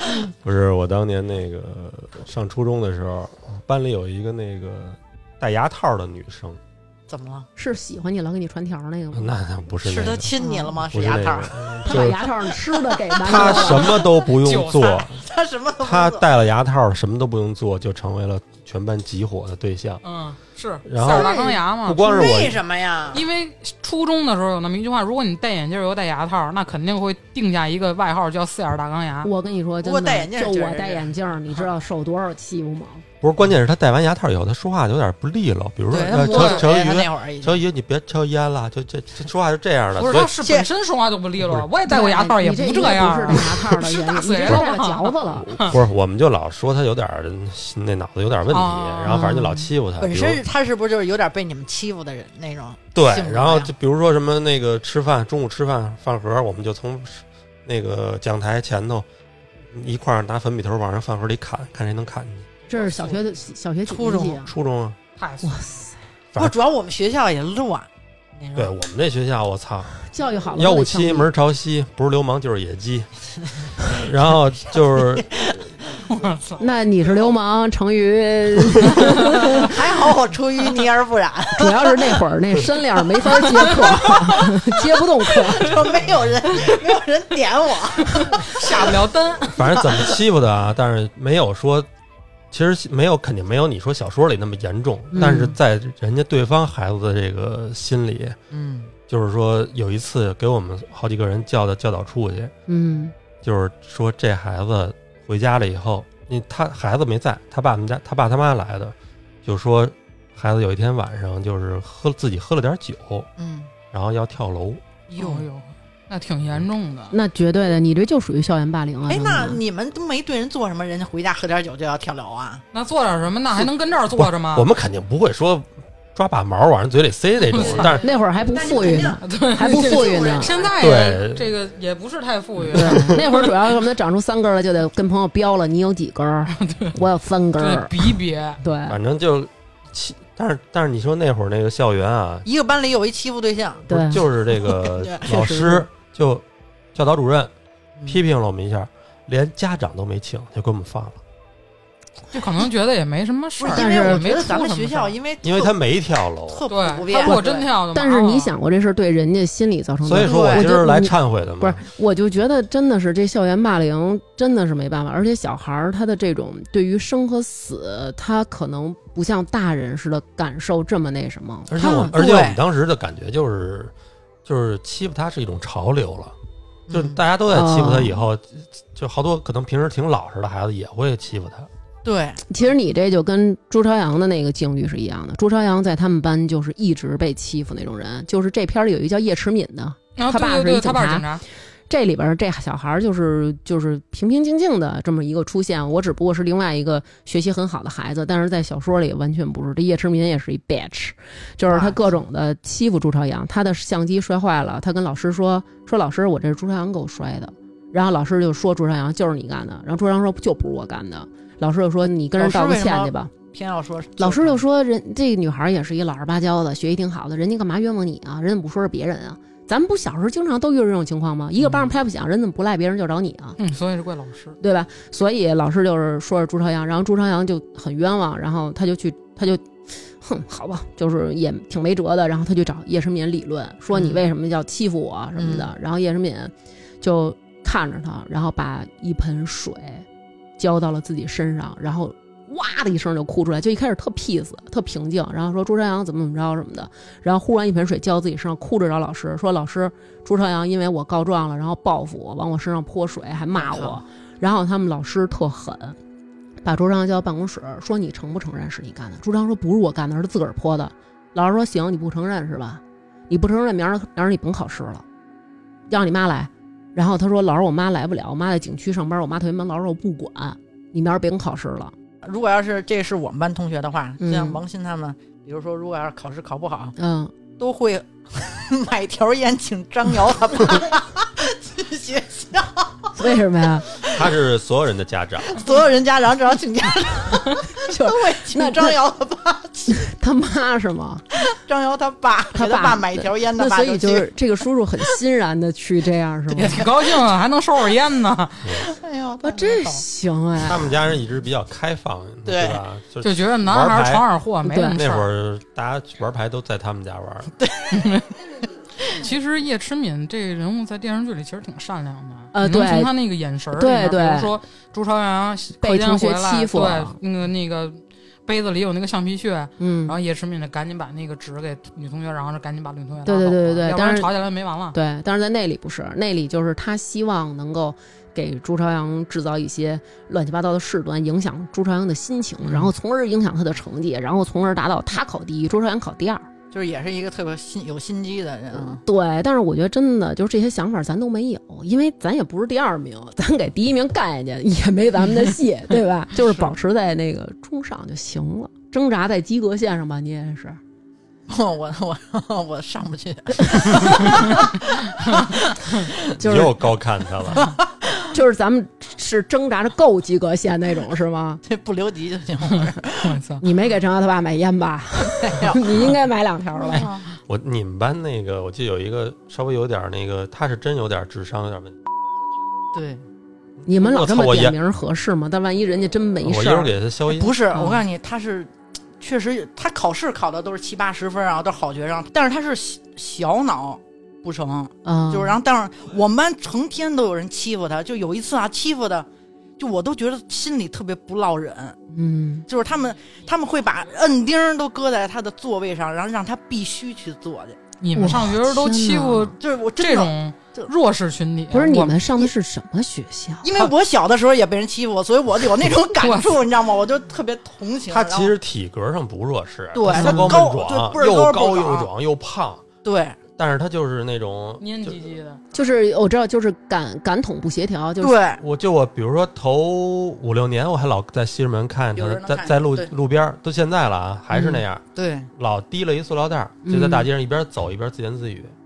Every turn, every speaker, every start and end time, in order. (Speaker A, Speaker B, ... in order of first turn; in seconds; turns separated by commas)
Speaker A: 0.2-6.6, Speaker B: 7.1-7.5, Speaker C: 7.6-9.4, Speaker A: 9.1-12.2, Speaker B: 9.8-12.2, Speaker C: 10.4-10.7, Speaker C: 11.9-14.0, Speaker B: 12.7-14.0, Speaker A: 13.2-15.2, Speaker D: 14.4-15.0, Speaker B: 14.8-16.2, Speaker A: 15.8-20.0, Speaker D: 20.0-22.1, Speaker A: 20.9-22.6, Speaker B: 21.0-21.5, Speaker B: 22.0-23.3, Speaker D: 23.1-29.3, Speaker C: 29.2-33.0, Speaker B: 29.8-31.6, Speaker A: 33.2-40.3, Speaker B: 35.9-37.6, Speaker D: 36.2-36.7, Speaker D: 40.0-45.8, Speaker B: 40.4-40.7, Speaker A: 41.4-41.7, Speaker C: 41.9-45.7, Speaker A: 45.6-50.4, Speaker D: 48.5-49.5, Speaker C: 49.1-49.6, Speaker B: 50.0-53.7, Speaker A: 53.0-59.1, Speaker A: 59.7-62.5, Speaker C: 62.7-64.5, Speaker B: 62.8-63.2, Speaker B: 63.9-64.5, Speaker A: 64.5-65.0, Speaker D: 65.2-65.7, Speaker C: 65.4-66.0, Speaker B: 66.4-68.7, Speaker A: 68.5-70.0, Speaker C: 70.0-71.3, Speaker A: 70.5-73.1, Speaker A: 73.8-75.5, Speaker B: 74.9-76.0, Speaker D: 76.0-76.6, Speaker C: 76.6-79.8, Speaker B: 79.6-82.2, Speaker C: 81.6-85.8, Speaker B: 83.4-89.1, Speaker D: 88.1-89.9, Speaker A: 89.5-91.9, Speaker A: 92.5-98.4, Speaker C: 95.1-95.6, Speaker B: 98.5-98.9, Speaker A: 99.1-102.5, Speaker C: 102.7-103.1, Speaker A: 103.4-113.3, Speaker B: 113.4-113.7, Speaker A: 113.9-114.8, Speaker B: 115.1-115.5, Speaker D: 115.2-117.2, Speaker C: 117.1-119.6, Speaker B: 119.1-122.6, Speaker D: 122.7-124.7, Speaker A: 124.2-128.1, Speaker D: 127.5-128.0, Speaker B: 127.6-130.7, Speaker C: 128.0-130.6, Speaker D: 129.2-133.5, Speaker A: 130.8-131.6, Speaker C: 132.7-139.0, Speaker D: 136.5-137.0, Speaker D: 137.6-138.6, Speaker A: 138.9-142.5, Speaker B: 142.4-145.8, Speaker C: 143.9-144.2, Speaker A: 143.9-147.5, Speaker C: 145.3-145.8, Speaker A: 148.1-151.2, Speaker D: 152.3-155.2, Speaker B: 153.6-155.8, Speaker C: 153.7-154.3, Speaker A: 155.4-156.7, Speaker B: 156.5-157.7, Speaker D: 156.7-158.5, Speaker C: 157.2-172.2, Speaker A: 160.0-161.8, Speaker B: 160.2-160.7, Speaker A: 171.7-173.9, Speaker B: 171.9-172.6, Speaker A: 174.4-176.3, Speaker B: 176.9-177.2, Speaker A: 176.9-181.7, Speaker C: 177.5-178.2, Speaker B: 182.0-182.4, Speaker C: 182.5-191.3, Speaker D: 190.2-191.4, Speaker C: 191.9-213.3, Speaker B: 201.7-202.1, Speaker B: 212.4-214.6, Speaker C: 214.2-223.6, Speaker B: 221.6-221.9, Speaker D: 223.6-224.6, Speaker C: 224.6-240.1, Speaker B: 233.9-234.2, Speaker B: 235.4-235.7, Speaker C: 240.6-256.0, Speaker B: 253.6-254.0, Speaker C: 256.6-265.0, Speaker C: 265.9-271.9, Speaker B: 272.2-277.0, Speaker C: 274.2-274.6, Speaker C: 277.0-277.3, Speaker B: 277.6-283.3, Speaker C: 283.2-283.9, Speaker B: 283.9-284.3, Speaker A: 284.0-285.7, Speaker B: 285.5-290.1, Speaker C: 287.8-288.9, Speaker C: 289.9-291.2, Speaker B: 291.5-294.3, Speaker C: 292.5-296.8, Speaker B: 296.6-297.2, Speaker D: 296.6-298.8, Speaker A: 298.6-298.9, Speaker B: 298.8-300.0, Speaker C: 299.4-300.9, Speaker A: 300.6-304.3, Speaker B: 302.5-302.8, Speaker D: 303.2-305.3, Speaker C: 304.6-305.0, Speaker A: 304.9-307.5, Speaker B: 307.6-308.1, Speaker D: 307.9-308.3, Speaker D: 309.1-325.0, Speaker C: 312.5-313.1, Speaker C: 313.7-314.5, Speaker C: 315.8-317.2, Speaker C: 319.8-320.2, Speaker C: 323.2-324.3, Speaker C: 324.9-336.5, Speaker B: 332.6-332.9, Speaker B: 336.7-339.0, Speaker C: 338.7-350.8, Speaker B: 351.5-356.1, Speaker A: 356.3-357.8, Speaker C: 356.4-356.8, Speaker B: 357.5-357.8, Speaker C: 358.3-361.6, Speaker B: 361.7-363.4, Speaker D: 363.2-363.6, Speaker C: 363.6-367.1, Speaker B: 365.4-366.1, Speaker B: 366.9-367.2, Speaker A: 367.5-372.0, Speaker B: 372.9-373.2, Speaker A: 373.8-374.8, Speaker C: 373.9-376.9, Speaker A: 376.4-377.6, Speaker B: 377.3-392.0, Speaker C: 377.7-378.0, Speaker C: 385.1-385.6, Speaker C: 392.1-392.7, Speaker B: 392.7-397.8, Speaker D: 398.0-402.2, Speaker C: 398.1-399.6, Speaker B: 399.6-400.9, Speaker C: 401.7-403.7, Speaker B: 403.6-408.5, Speaker D: 406.2-406.6, Speaker A: 408.1-412.9, Speaker B: 409.9-412.1, Speaker C: 410.1-410.6, Speaker B: 413.0-413.4, Speaker A: 413.6-415.2, Speaker D: 414.8-415.6, Speaker C: 415.7-418.4, Speaker B: 418.2-418.6, Speaker A: 418.6-428.8, Speaker B: 422.1-423.1, Speaker B: 424.5-425.5, Speaker C: 426.8-427.3